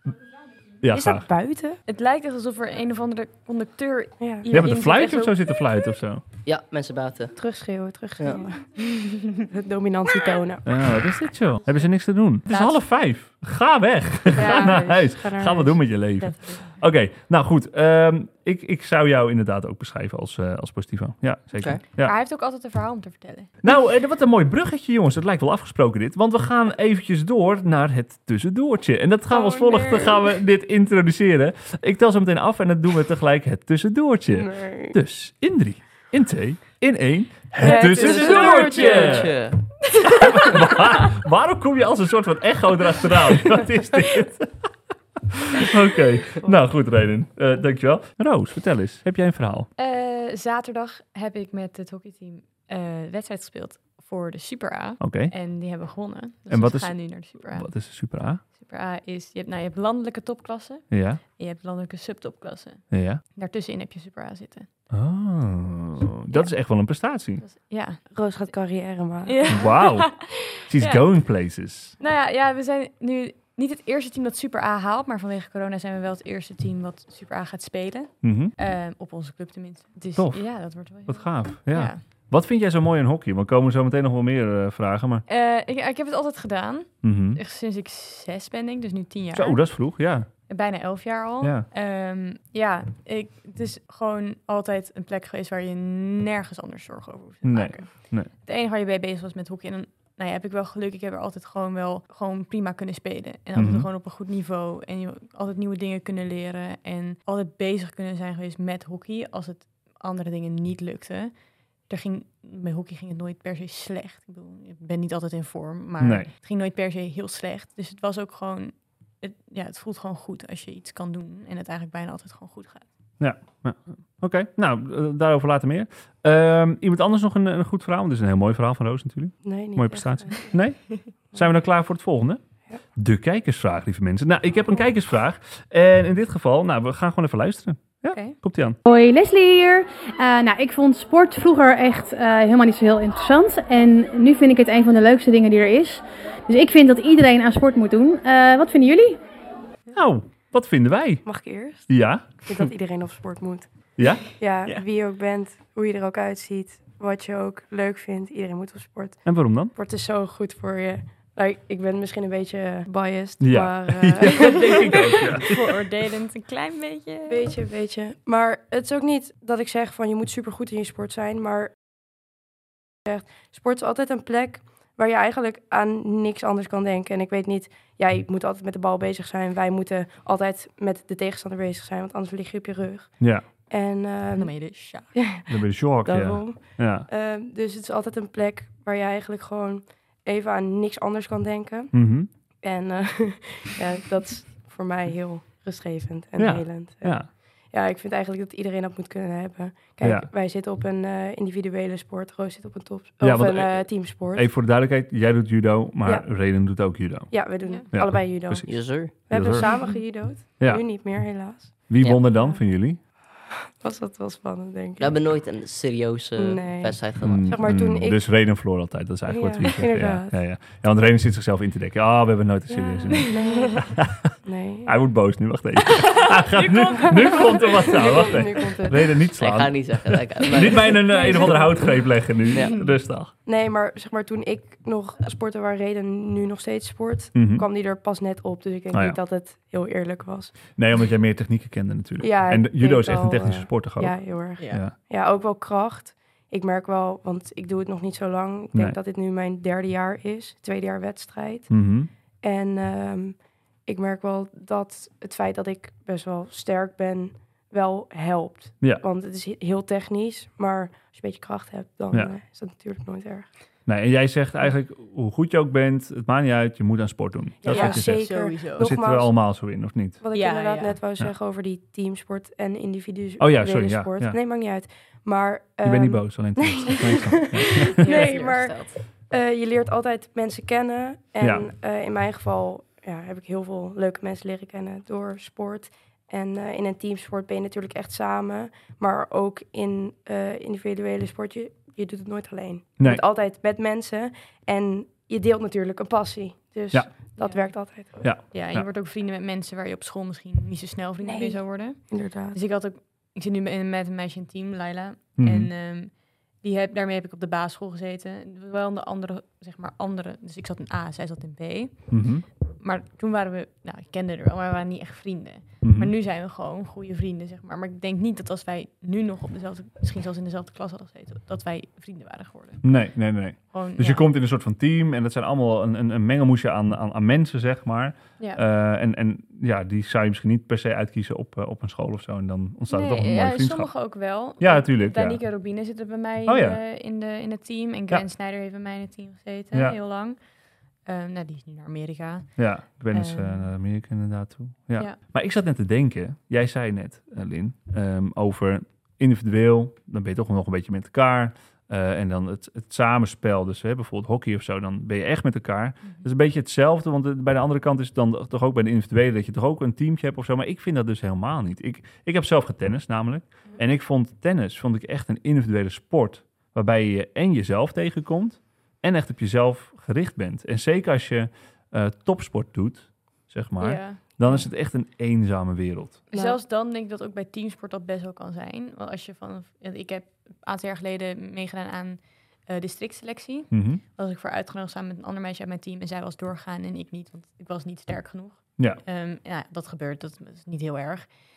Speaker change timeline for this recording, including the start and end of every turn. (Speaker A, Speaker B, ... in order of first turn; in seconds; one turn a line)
Speaker A: 0.8-1.2
Speaker B: 0.9-1.8
Speaker C: 1.9-5.4
Speaker B: 4.2-4.7
Speaker A: 4.5-6.2
Speaker D: 6.4-7.4
Speaker B: 7.3-10.8
Speaker C: 9.1-9.4
Speaker A: 10.7-22.1
Speaker C: 12.5-12.8
Speaker B: 14.3-16.6
Speaker C: 14.3-14.8
Speaker C: 22.0-23.5
Speaker A: 23.6-39.5
Speaker B: 29.3-30.2
Speaker B: 34.3-35.0
Speaker B: 37.5-39.4
Speaker D: 37.7-39.8
Speaker A: 40.0-44.7
Speaker A: 45.3-49.7
Speaker C: 49.8-57.7
Speaker A: 55.0-55.3
Speaker A: 56.5-58.4
Speaker C: 58.5-64.7
Speaker A: 60.9-61.2
Speaker A: 62.9-63.2
Speaker A: 64.9-67.4
Speaker C: 67.4-68.0
Speaker B: 68.1-69.6
Speaker C: 69.2-71.0
Speaker A: 69.5-72.0
Speaker C: 72.0-82.0
Speaker A: 78.2-78.5
Speaker A: 80.2-85.2
Speaker C: 85.3-89.6
Speaker A: 87.0-87.4
Speaker A: 89.3-90.3
Speaker C: 90.5-111.3
Speaker A: 91.4-91.7
Speaker A: 97.4-98.3
Speaker A: 103.5-103.9
Speaker C: 111.9-122.9
Speaker A: 116.0-116.3
Speaker A: 123.2-132.4
Speaker B: 129.4-130.6
Speaker B: 131.3-131.6
Speaker A: 132.9-138.8
Speaker C: 138.1-138.4
Speaker E: 138.8-149.1
Speaker A: 149.9-151.2
Speaker B: 151.2-165.6
Speaker A: 151.9-152.5
Speaker A: 154.0-154.3
Speaker A: 159.2-159.7
Speaker A: 163.4-165.6
Speaker C: 164.4-167.5
Speaker B: 167.3-171.8
Speaker B: 173.0-192.0
Speaker A: 183.2-183.4
Speaker C: 184.3-185.2
Speaker A: 185.5-187.1
Speaker A: 191.9-192.3
Speaker B: 192.6-204.5
Speaker A: 196.4-197.3
Speaker A: 200.0-200.3
Speaker A: 203.2-207.4
Speaker B: 207.3-212.6
Speaker A: 207.9-209.8
Speaker D: 208.7-209.5
Speaker A: 211.9-213.0
Speaker B: 213.6-215.2
Speaker D: 215.0-217.7
Speaker B: 216.4-218.3
Speaker A: 217.2-224.3
Speaker B: 219.2-220.4
Speaker B: 222.7-225.0
Speaker C: 223.1-223.7
Speaker A: 224.8-233.3
Speaker C: 226.4-228.1
Speaker B: 227.2-229.1
Speaker D: 229.4-231.6
Speaker B: 231.1-232.0
Speaker C: 231.2-231.6
Speaker D: 232.5-232.8
Speaker B: 233.4-240.6
Speaker A: 237.3-237.7
Speaker A: 238.9-239.2
Speaker A: 240.7-244.9
Speaker B: 242.2-263.5
Speaker C: 244.6-244.8
Speaker A: 251.7-252.1
Speaker A: 263.9-270.2
Speaker C: 267.6-268.9
Speaker B: 267.6-269.5
Speaker B: 270.2-298.4
Speaker C: 270.3-271.0
Speaker A: 273.4-274.4
Speaker A: 275.8-277.9
Speaker C: 277.9-279.0
Speaker A: 281.4-281.7
Speaker C: 297.4-322.8
Speaker A: 298.2-298.9
Speaker B: 301.2-302.6
Speaker A: 305.4-305.7
Speaker A: 312.1-312.4
Speaker A: 315.8-316.1
Speaker A: 322.8-333.9
Speaker C: 323.7-324.2
Speaker C: 332.9-340.4
Speaker A: 334.6-335.4
Speaker A: 336.4-336.8
Speaker C: 341.0-342.6
Speaker A: 342.6-376.2
Speaker C: 343.1-343.7
Speaker C: 373.8-374.6
Speaker B: 376.3-376.6
Speaker C: 376.3-391.4
Speaker A: 383.7-384.0